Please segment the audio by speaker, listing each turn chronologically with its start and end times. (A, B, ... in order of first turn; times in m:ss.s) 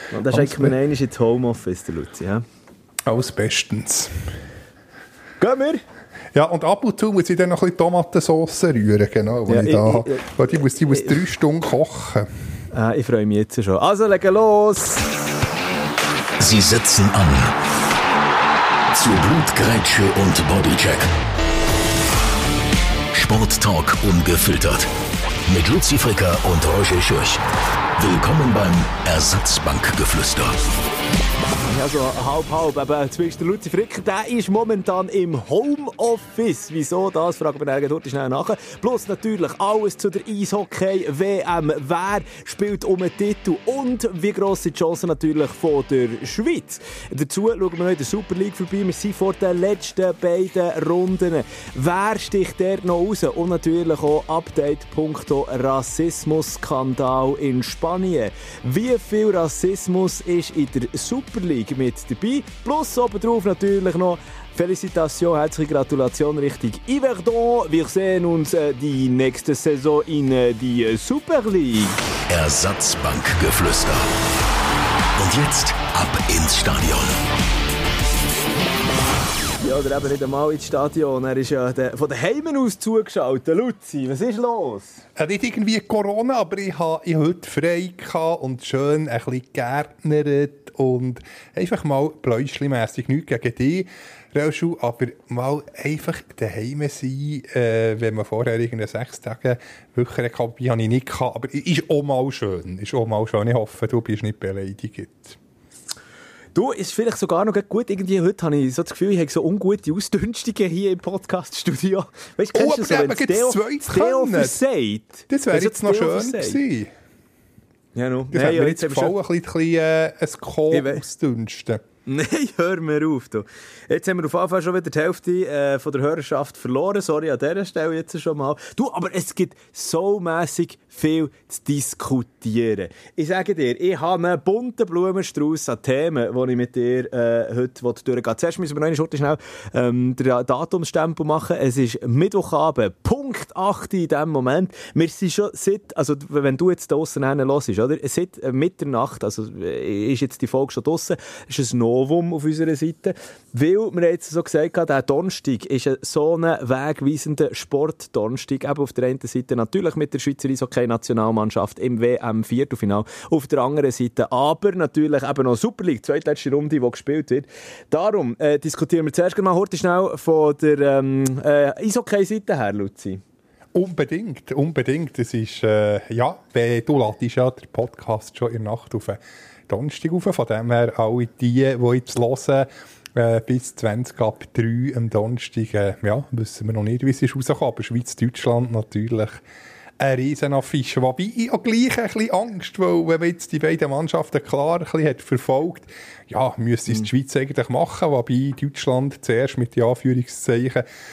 0:00.1-0:02.4 A
0:00.3-0:00.7 B
0:03.0-0:04.4 B
0:05.4-0:05.8 A
0:06.3-0:12.3 B
0:09.5-0:10.3 A
0:10.9-0:11.2 A
0:12.7-0:15.1 A
0:16.4-0:17.5 C
0:18.9-0:21.1 C
0:23.1-0:24.9 C
0:25.5-0:27.4 C
0:28.0-0:30.7 C
0:31.7-1:12.0 A
1:12.3-1:14.1 C
1:15.2-1:17.2 C
1:19.6-1:25.0 A
1:25.2-1:45.4 B
1:46.6-1:56.6 A
1:52.5-1:54.6 B
1:55.3-1:56.9 B
1:58.0-1:59.1 A
1:58.3-2:01.8 B
2:00.7-2:01.0 A
2:02.1-2:53.2 A
2:53.7-3:09.4 B
3:10.0-3:20.8 B